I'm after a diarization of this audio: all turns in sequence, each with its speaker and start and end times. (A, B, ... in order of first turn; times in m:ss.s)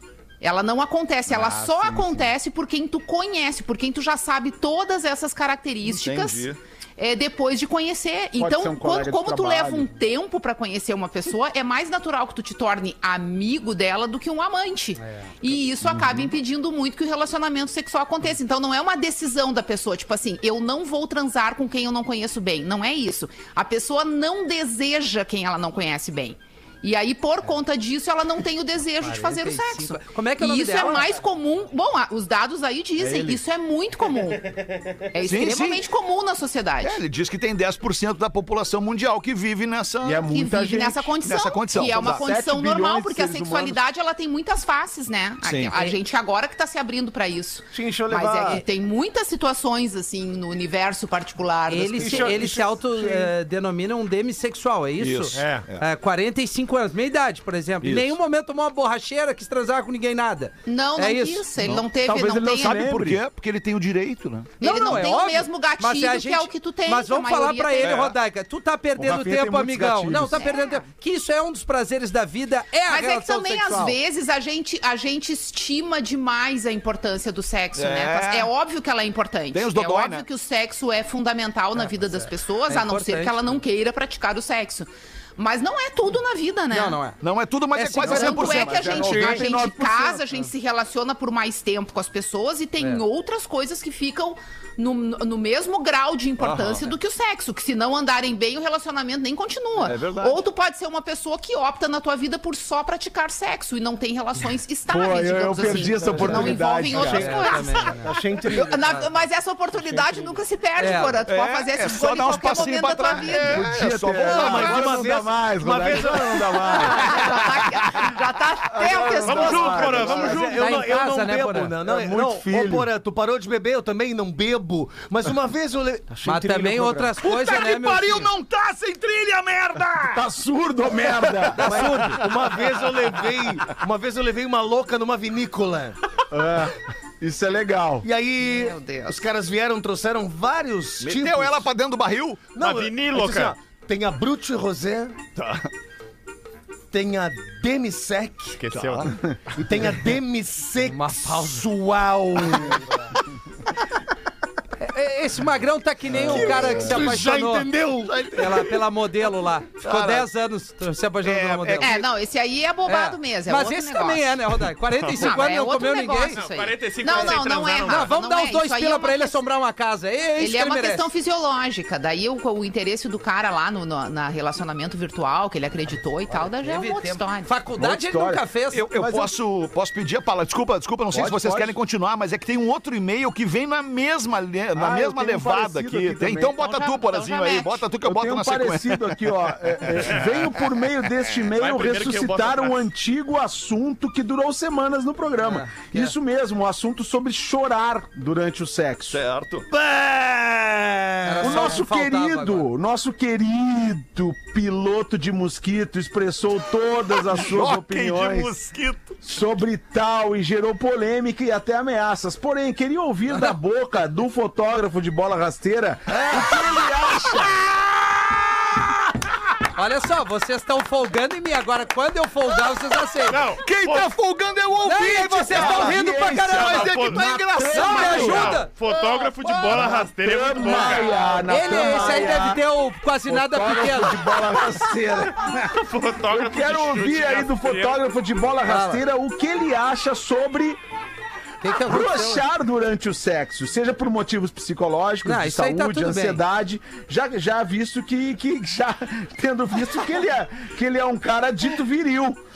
0:00.4-0:34.5 A
0:01.3-0:02.3 B
0:05.8-0:06.6 C
0:08.4-0:09.9 B
0:15.0-0:15.3 D
0:29.0-0:31.1 D
0:33.0-0:33.4 B
0:35.1-0:37.0 A
0:35.2-0:35.8 C
0:36.8-0:40.3 C
0:40.0-0:41.2 B
0:40.2-0:52.4 A
0:41.2-0:42.2 C
0:41.7-0:43.8 B
0:45.4-0:45.8 C
0:47.7-0:48.6 E
0:51.7-1:01.4 D
0:52.0-0:53.3 E
0:55.0-0:55.9 C
0:55.3-0:55.7 F
0:57.8-0:58.2 C
1:00.6-1:02.8 A
1:01.6-1:01.8 C
1:02.0-1:03.2 B
1:02.6-1:04.5 C
1:04.6-1:08.0 A
1:04.6-1:14.0 D
1:07.8-1:08.1 C
1:09.0-1:10.4 B
1:10.3-1:10.9 A
1:12.8-1:27.0 A
1:17.7-1:18.5 C
1:19.5-1:20.2 C
1:22.1-1:23.6 D
1:26.7-1:27.2 D
1:27.2-1:29.4 C
1:27.7-1:28.7 D
1:28.0-1:53.7 A
1:28.1-1:30.2 B
1:36.4-1:36.9 C
1:39.8-1:40.4 C
1:44.9-1:47.3 B
1:45.8-1:49.1 E
1:46.9-1:48.1 D
1:49.7-1:50.4 E
1:50.8-1:51.2 D
1:51.2-1:55.1 C
1:53.4-1:57.4 B
1:54.2-1:57.2 E
1:56.7-2:00.4 A
1:57.3-1:58.1 C
1:58.7-2:00.2 B
1:59.0-1:59.2 E
1:59.2-2:00.8 F
1:59.8-2:07.2 E
2:00.3-2:01.7 D
2:01.8-2:02.9 B
2:06.2-2:08.3 D
2:07.2-2:10.2 C
2:10.1-2:12.0 B
2:11.4-2:13.0 C
2:11.6-2:16.0 E
2:11.6-2:12.2 D
2:16.3-2:18.0 B
2:18.0-2:21.7 E
2:18.4-2:19.2 A
2:21.0-2:22.5 C
2:22.5-2:25.2 E
2:22.6-2:23.6 F
2:25.4-2:25.7 C
2:26.9-2:28.6 E
2:28.6-2:29.6 F
2:28.7-2:29.2 C
2:29.5-2:33.0 E
2:30.8-2:31.6 D
2:34.8-2:37.7 D
2:36.1-2:38.3 E
2:38.0-2:38.8 C
2:38.3-2:41.9 D
2:39.8-2:40.3 C
2:41.2-2:42.1 C
2:41.8-2:44.3 A
2:42.9-2:46.4 D
2:45.1-2:49.4 A
2:46.4-2:48.1 F
2:47.1-2:51.1 D
2:50.4-2:57.5 A
2:56.6-2:58.8 D
2:57.8-2:59.3 B
2:58.7-3:09.2 C
3:01.1-3:01.8 B
3:04.7-3:06.5 B
3:06.5-3:07.8 A
3:08.0-3:19.2 B
3:09.8-3:10.2 C
3:11.6-3:12.8 F
3:15.4-3:16.1 D
3:19.1-3:19.7 C
3:19.7-3:21.7 E
3:21.2-3:22.7 D
3:21.4-3:28.5 B
3:27.2-3:29.2 C
3:29.2-3:37.6 B
3:33.3-3:33.6 D
3:36.1-3:36.5 D
3:39.7-3:43.4 D
3:43.3-3:44.1 F
3:43.5-3:46.0 C
3:44.8-3:46.9 D
3:45.1-3:48.6 B
3:46.5-3:48.6 C
3:46.5-3:51.5 F
3:47.7-3:48.7 D
3:49.4-3:52.6 B
3:50.7-3:51.0 C
3:51.4-3:54.3 D
3:51.7-3:52.3 E
3:53.2-3:55.8 B
3:55.5-3:58.0 F
3:56.3-4:00.8 B
3:58.7-3:59.0 D
4:01.6-4:02.4 D
4:01.7-4:12.4 B
4:05.2-4:06.4 D